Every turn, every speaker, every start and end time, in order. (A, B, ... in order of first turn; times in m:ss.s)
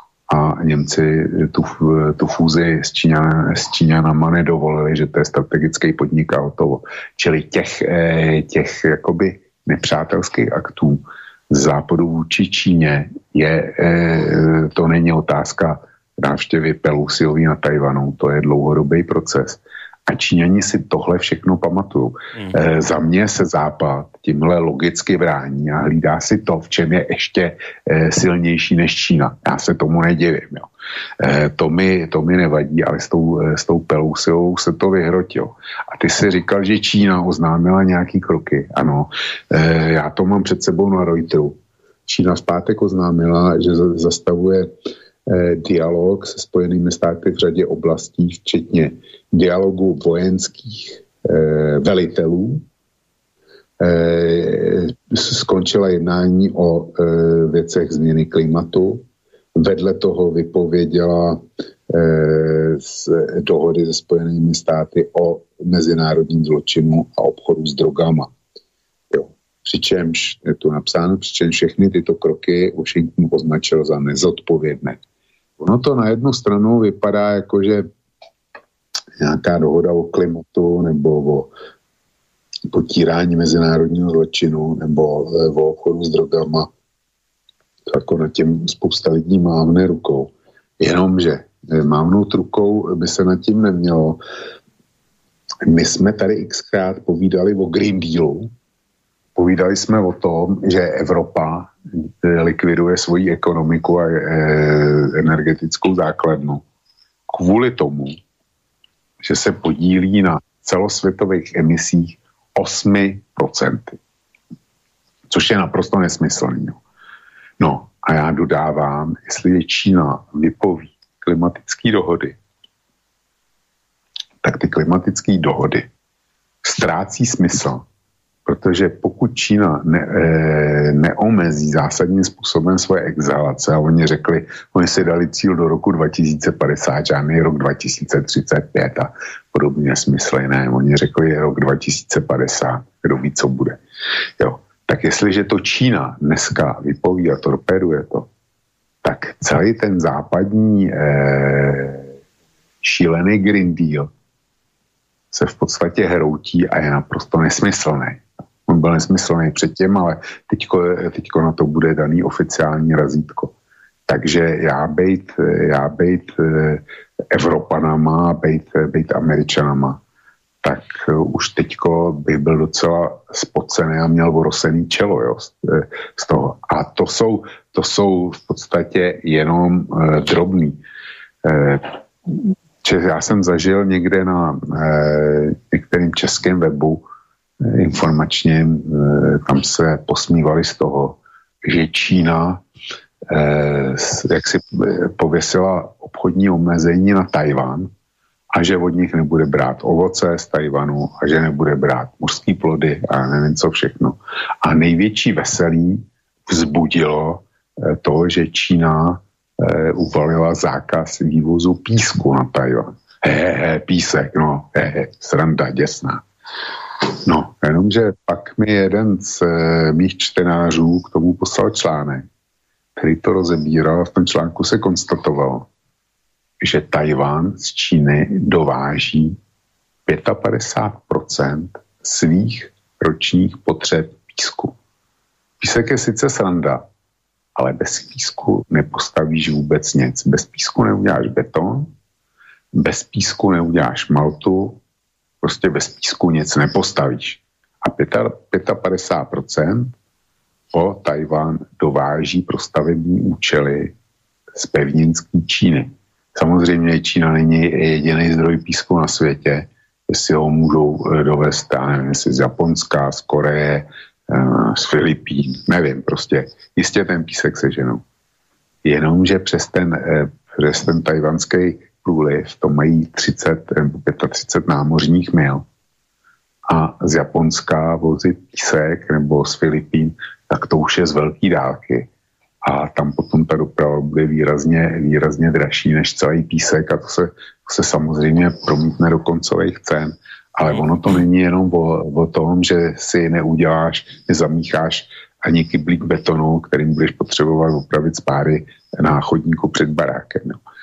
0:00.3-0:44.7 A
0:45.2-0:52.6 A
0:53.8-1:08.3 A
1:09.1-1:15.0 A
1:15.6-1:17.9 A
1:19.2-1:21.5 A
1:22.7-1:26.7 A
1:27.9-1:34.2 A
1:35.6-1:38.5 A
1:39.3-1:46.6 A
1:47.3-1:48.2 A
1:49.2-1:54.0 A
1:55.3-1:56.8 A
1:57.6-2:02.4 A
2:04.4-2:05.9 A
2:06.6-2:07.8 A
2:08.4-2:23.8 A
2:24.4-2:28.3 A
2:29.0-2:32.1 A
2:32.8-2:34.1 A
2:35.3-2:43.5 A
2:44.1-2:50.0 A
2:50.6-3:00.8 A
3:01.4-3:07.0 A
3:07.6-3:12.6 A
3:13.3-3:17.9 A
3:18.5-3:36.2 A
3:37.2-3:42.3 A
3:43.0-3:45.7 A
3:46.6-3:49.4 A
3:50.0-3:54.8 A
3:55.6-3:56.9 A
3:57.5-4:01.9 A
4:02.7-4:04.8 A
4:05.4-4:09.9 A
4:10.7-4:13.9 A
4:14.5-4:28.0 A
4:28.8-4:35.6 A
4:36.7-4:42.1 A
4:42.6-5:00.6 A